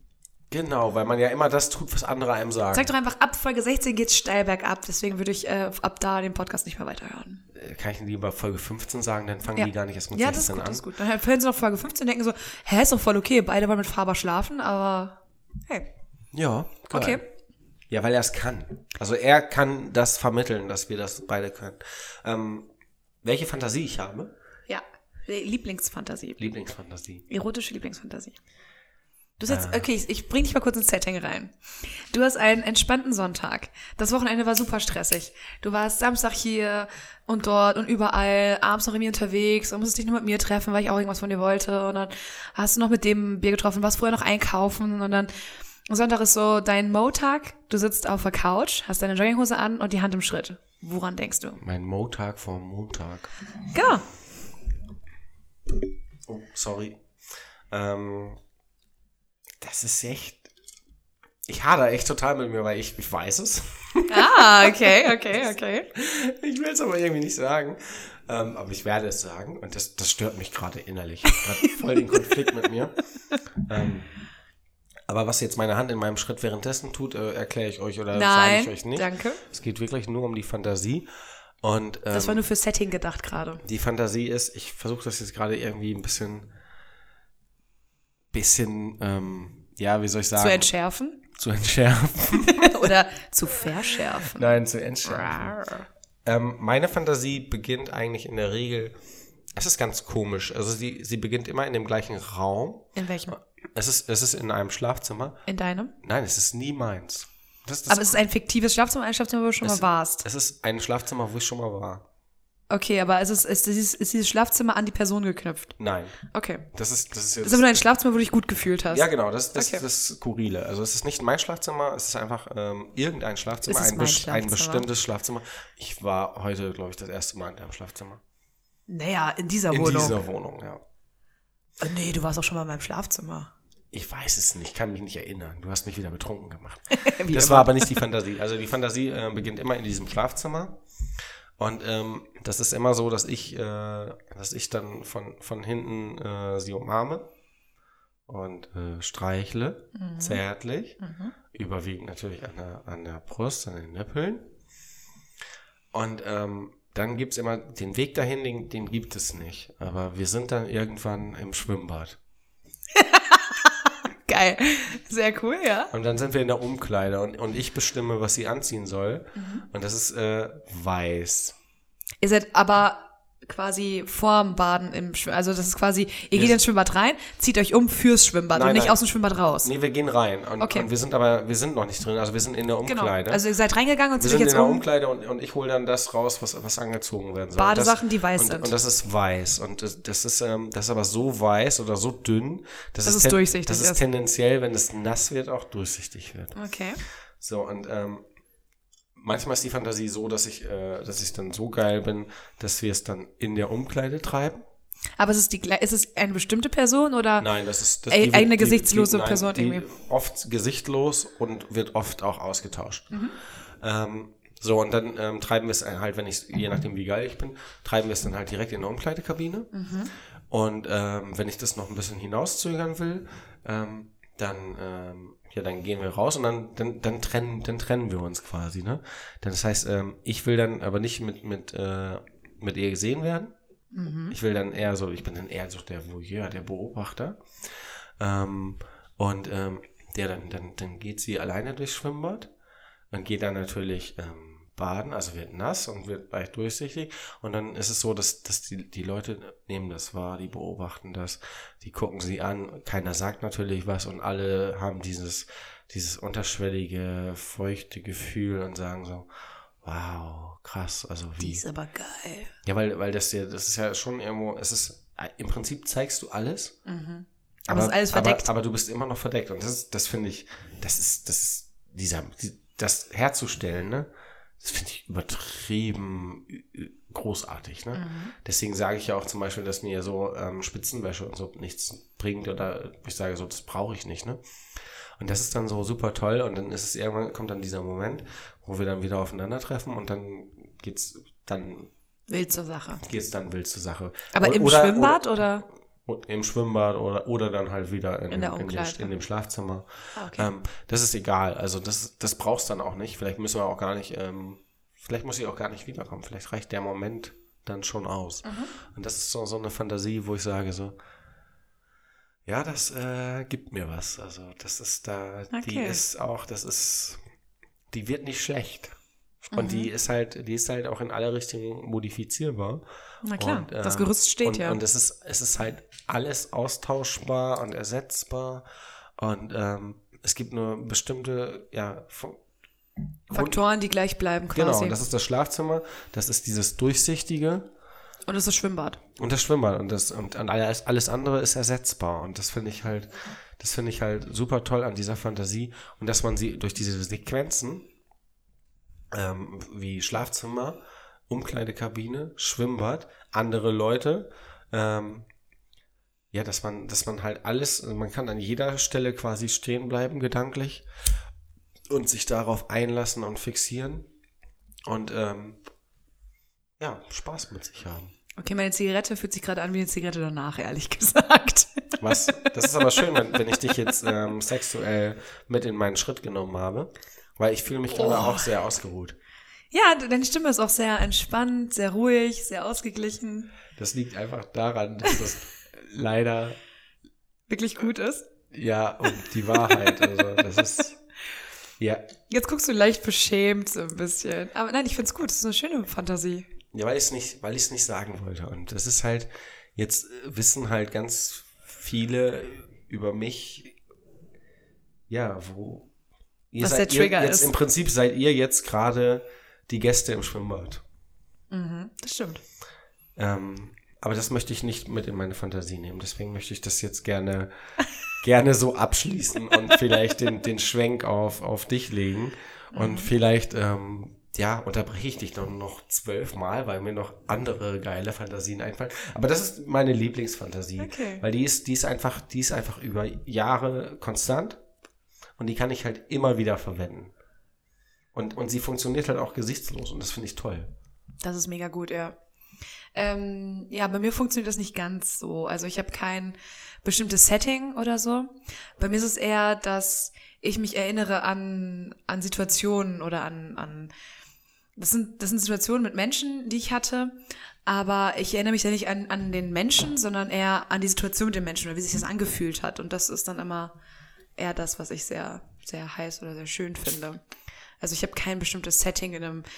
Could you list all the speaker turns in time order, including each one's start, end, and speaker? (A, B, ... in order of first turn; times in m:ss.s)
0:00.5-0:02.9 A
0:02.7-0:07.4 B
0:07.5-0:10.9 A
0:09.6-0:15.9 B
0:16.3-0:17.2 A
0:16.9-0:17.2 B
0:17.9-0:22.7 A
0:23.2-0:24.3 A
0:24.7-0:26.4 B
0:26.4-0:27.2 A
0:27.3-0:28.4 B
0:29.4-0:45.3 B
0:29.5-0:29.9 A
0:45.9-0:51.6 B
0:51.6-0:53.3 A
0:53.7-0:54.0 B
0:56.3-0:57.0 A
0:57.7-0:58.4 A
0:59.6-1:00.5 A
1:01.5-1:05.1 A
1:04.1-1:05.9 B
1:05.9-1:13.0 A
1:11.3-1:12.2 B
1:13.6-1:14.1 A
1:15.1-1:21.1 A
1:18.1-1:19.4 B
1:21.6-1:22.4 A
1:22.1-1:23.6 B
1:23.6-1:26.5 A
1:28.3-1:30.7 A
1:30.4-1:31.2 B
1:31.4-1:32.9 A
1:32.4-1:35.9 B
1:34.2-1:35.6 A
1:36.2-1:39.0 A
1:39.6-1:42.9 A
1:43.0-1:43.4 B
1:43.7-1:45.4 A
1:45.5-1:45.9 B
1:46.0-1:48.2 A
1:47.9-1:50.2 B
1:49.6-1:52.0 A
1:52.7-1:55.8 B
1:55.8-1:56.2 A
1:56.3-1:56.7 B
1:56.7-1:57.8 A
1:57.4-1:59.8 B
1:58.9-2:08.2 A
2:03.7-2:04.9 B
2:08.9-2:10.2 B
2:09.7-2:10.8 A
2:11.8-2:13.5 B
2:13.9-2:20.8 A
2:16.9-2:18.0 B
2:21.6-2:27.3 A
2:28.3-2:31.0 A
2:30.0-2:30.4 B
2:31.0-2:31.3 B
2:31.5-2:34.5 A
2:35.9-2:42.2 A
2:43.0-2:45.9 B
2:45.9-2:51.6 A
2:49.4-2:49.6 B
2:52.2-2:59.7 B
2:56.3-2:56.6 A
2:58.5-2:59.0 A
2:59.6-3:03.4 A
3:00.6-3:00.9 B
3:02.8-3:04.8 B
3:04.2-3:16.6 A
3:07.6-3:08.8 B
3:13.0-3:14.0 B
3:16.6-3:17.0 B
3:17.4-3:18.2 A
3:19.2-3:24.6 A
3:25.2-3:27.5 B
3:27.4-3:33.1 A
3:28.1-3:29.9 B
3:33.8-3:39.7 A
3:39.7-3:40.1 B
3:40.5-3:53.5 A
3:53.9-3:54.4 B
3:54.3-3:57.4 A
3:58.2-4:02.5 A
4:03.1-4:19.3 A
4:19.8-4:21.6 A
4:21.4-4:22.5 B
4:22.6-4:26.8 A
4:26.9-4:28.5 B
4:27.7-4:34.1 A
4:34.6-4:44.4 A
4:37.9-4:38.3 B
4:45.2-4:51.9 A
4:52.3-4:53.0 B
4:53.0-4:55.2 A
4:54.3-4:55.7 B
4:56.1-5:11.0 A
4:58.3-4:59.1 B
5:00.2-5:00.5 B
5:08.4-5:08.7 B
5:12.5-5:17.2 A
5:15.5-5:16.0 B
5:17.9-5:22.8 A
5:19.5-5:19.9 B
5:23.2-5:24.8 B
5:23.4-5:28.6 A
5:29.2-5:32.4 A
5:33.3-5:33.6 A
5:33.3-5:35.0 B
5:34.5-5:37.7 A
5:38.3-5:39.0 B
5:39.2-5:47.9 A
5:49.1-5:55.3 A
5:56.3-6:00.9 A
6:01.9-6:04.1 A
6:04.9-6:05.6 A
6:06.8-6:08.1 A
6:08.4-6:13.1 B
6:12.0-6:19.2 A
6:17.9-6:18.5 B
6:19.7-6:23.5 B
6:23.8-6:26.6 A
6:27.5-6:28.2 B
6:28.5-6:31.0 A
6:29.1-6:30.2 B
6:31.8-6:32.1 A
6:32.3-6:36.5 B
6:36.7-6:43.8 A
6:45.1-6:45.9 A
6:46.5-6:50.8 A
6:46.6-6:47.5 B
6:51.5-6:52.4 B
6:53.2-6:57.5 A
6:58.2-7:14.6 A
7:02.7-7:03.1 B
7:10.8-7:11.2 B
7:15.4-7:17.1 A
7:18.1-7:20.7 A
7:21.2-7:22.2 B
7:23.0-7:33.9 B
7:34.8-7:37.2 B
7:37.7-7:43.7 B
7:44.4-7:47.2 B
7:47.8-7:49.4 B